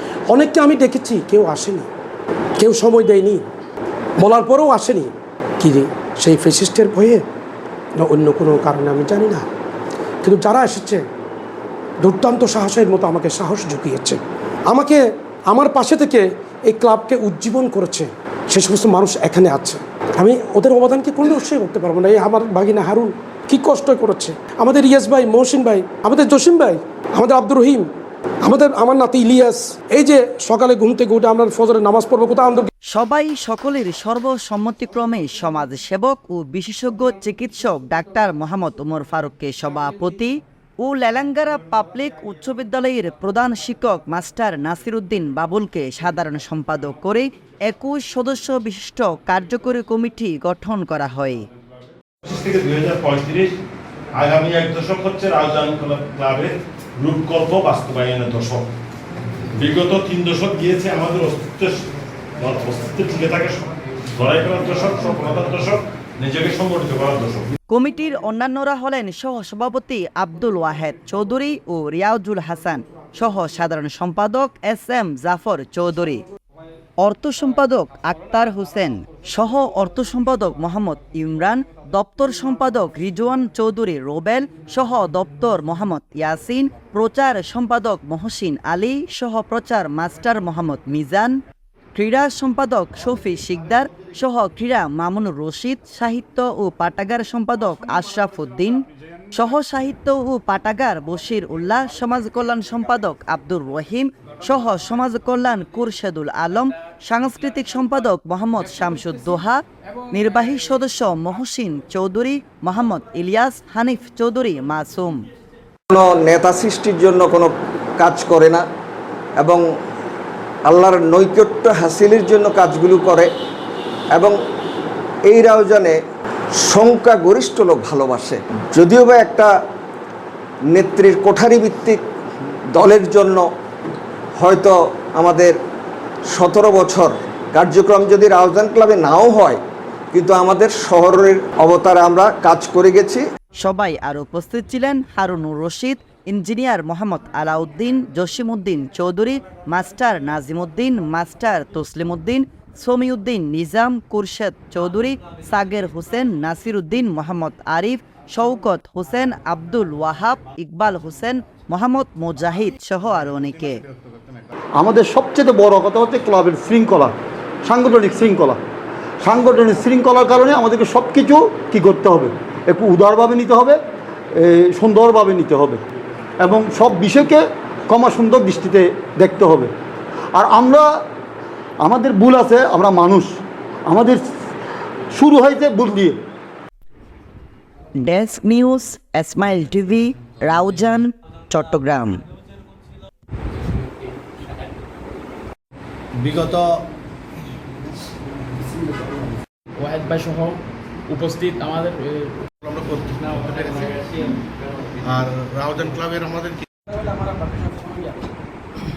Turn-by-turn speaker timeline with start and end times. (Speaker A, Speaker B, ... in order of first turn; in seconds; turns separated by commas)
Speaker A: 0.3-1.9, Speaker A: 2.6-3.4, Speaker A: 4.2-7.2, Speaker A: 8.0-9.4, Speaker A: 10.2-11.0, Speaker A: 12.0-27.9, Speaker A: 28.4-32.7, Speaker B: 32.9-51.5, Speaker C: 52.2-53.5, Speaker C: 54.1-58.7, Speaker C: 59.5-61.9, Speaker C: 62.4-67.5, Speaker B: 67.7-76.2, Speaker B: 77.0-91.3, Speaker B: 91.9-98.8, Speaker B: 99.3-115.2, Speaker D: 115.9-118.6, Speaker D: 120.7-123.3, Speaker D: 125.2-126.0, Speaker D: 126.6-129.5, Speaker D: 130.7-132.0, Speaker D: 132.7-133.4, Speaker D: 134.4-135.6, Speaker D: 136.3-139.6, Speaker D: 140.1-143.2, Speaker B: 143.6-163.8, Speaker E: 164.8-168.6, Speaker E: 169.2-173.8, Speaker E: 174.3-175.8, Speaker E: 176.4-179.7, Speaker E: 180.3-180.9, Speaker E: 181.8-184.2, Speaker E: 185.1-186.2, Speaker B: 188.0-192.2, Speaker F: 199.8-200.6, Speaker F: 201.1-202.3, Speaker G: 202.8-203.9, Speaker F: 203.1-205.1, Speaker G: 205.1-206.5, Speaker F: 205.7-206.0, Speaker F: 206.9-208.3